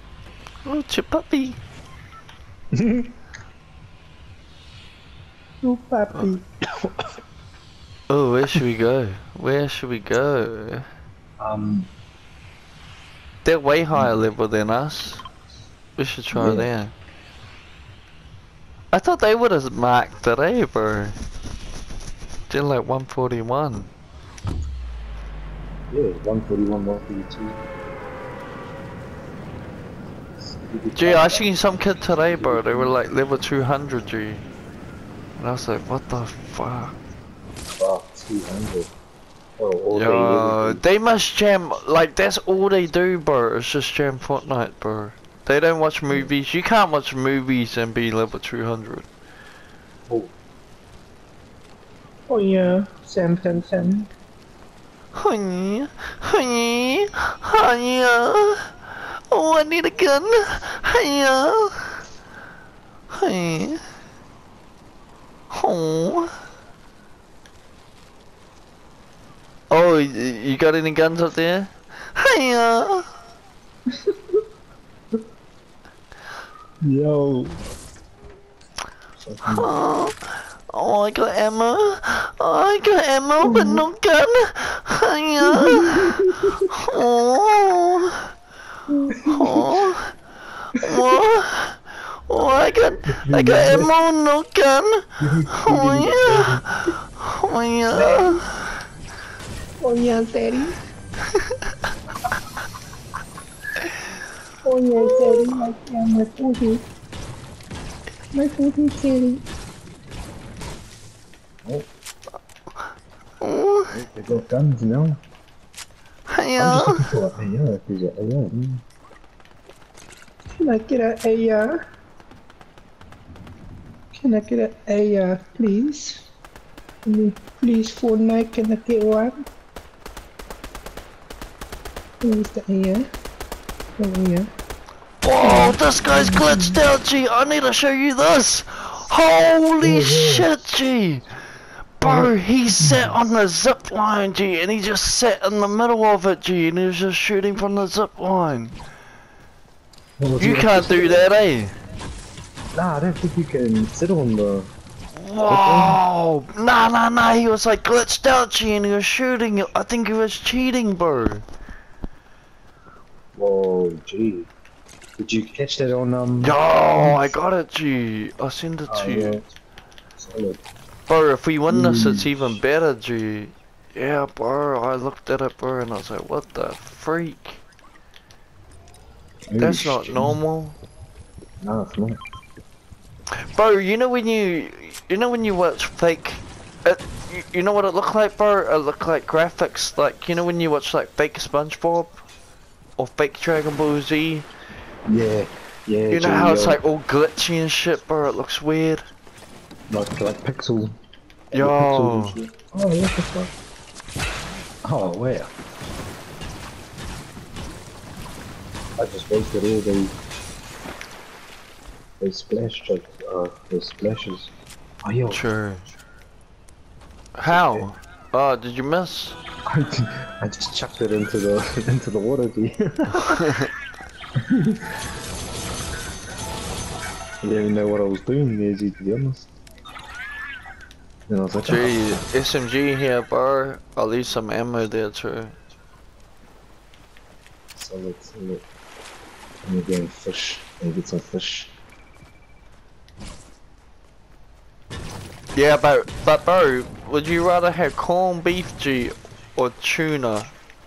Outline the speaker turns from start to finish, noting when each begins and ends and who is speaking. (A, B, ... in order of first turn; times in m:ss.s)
0:00.6-0:01.6 A
0:02.7-0:03.1 B
0:05.6-0:06.9 B
0:08.1-0:10.9 A
0:11.4-0:11.9 B
0:13.4-0:15.2 A
0:13.9-0:14.2 B
0:16.0-0:16.9 A
0:16.3-0:16.7 B
0:18.9-0:21.1 A
0:22.5-0:23.9 A
0:25.9-0:27.6 B
0:30.4-0:31.5 B
0:30.9-0:34.4 A
0:32.3-0:33.0 B
0:35.4-0:37.0 A
0:37.7-0:38.9 B
0:39.6-0:40.8 B
0:39.9-0:49.1 A
0:52.3-0:54.1 B
0:55.1-1:01.9 A
1:03.1-1:03.8 A
1:05.5-1:06.3 A
1:09.7-1:13.0 A
1:16.8-1:17.6 B
1:19.2-1:19.7 B
1:19.5-1:20.1 A
1:20.7-1:28.2 A
1:23.4-1:23.8 B
1:25.4-1:26.6 B
1:29.1-1:29.8 B
1:29.3-1:30.1 A
1:30.8-1:36.6 A
1:33.1-1:33.9 B
1:35.2-1:36.6 B
1:37.2-1:38.5 A
1:39.8-1:40.7 C
1:44.6-1:46.8 C
1:45.3-1:45.6 A
1:48.3-1:49.4 C
1:53.4-1:54.0 A
1:53.9-1:55.2 B
1:56.3-1:57.1 A
1:56.6-1:58.8 B
2:00.6-2:01.8 C
2:04.1-2:06.2 C
2:07.0-2:09.4 C
2:12.2-2:13.1 C
2:14.0-2:14.5 C
2:15.2-2:21.2 A
2:15.4-2:15.7 C
2:19.8-2:20.6 B
2:22.0-2:28.7 A
2:22.0-2:23.1 B
2:30.2-2:31.3 B
2:30.4-2:31.7 A
2:32.7-2:34.7 B
2:35.1-2:41.4 A
2:35.5-2:36.0 B
2:43.3-2:44.5 B
2:45.2-2:47.4 B
2:46.4-2:49.4 A
2:48.9-2:49.4 B
2:50.2-2:50.6 B
2:51.1-2:57.6 A
2:51.7-2:52.6 B
2:59.5-3:00.4 B
2:59.6-3:00.8 A
3:01.6-3:02.2 B
3:03.5-3:12.2 A
3:13.0-3:14.5 A
3:15.1-3:16.8 B
3:16.1-3:19.0 A
3:19.9-3:20.9 B
3:21.5-3:23.5 B
3:21.5-3:22.4 A
3:24.8-3:25.5 B
3:29.0-3:30.1 B
3:32.2-3:34.5 B
3:35.0-3:35.4 B
3:35.3-3:35.8 A
3:37.4-3:39.4 A
3:37.4-3:37.9 B
3:39.7-3:43.4 B
3:43.1-3:43.7 A
3:44.5-3:44.9 B
3:47.4-3:49.5 B
3:51.3-3:52.1 B
3:51.6-3:55.6 A
3:57.8-3:58.6 B
3:59.6-4:01.7 B
4:05.5-4:10.5 A